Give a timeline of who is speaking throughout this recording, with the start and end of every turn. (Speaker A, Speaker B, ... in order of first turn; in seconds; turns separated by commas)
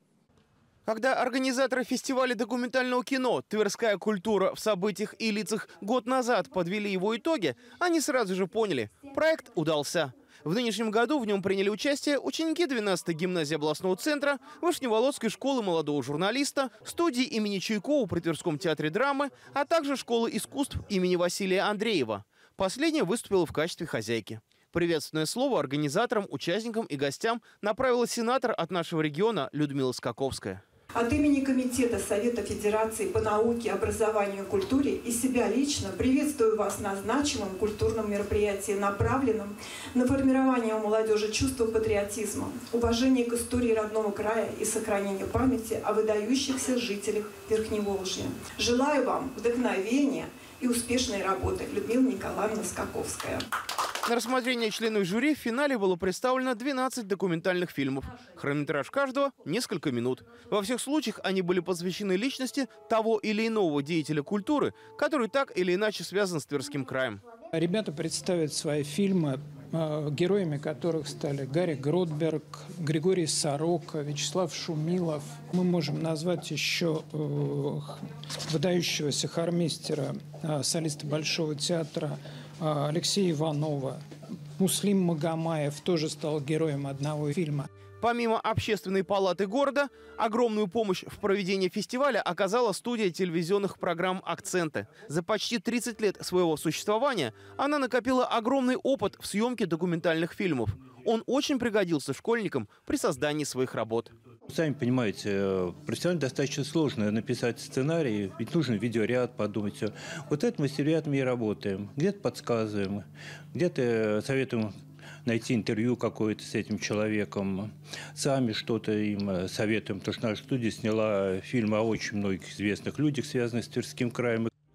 Speaker A: 0.9-30.6, Speaker B: 30.9-53.4, Speaker A: 54.0-67.2, Speaker C: 67.5-84.0, Speaker C: 84.6-87.7, Speaker A: 88.0-104.1, Speaker D: 104.5-114.7, Speaker D: 115.2-124.5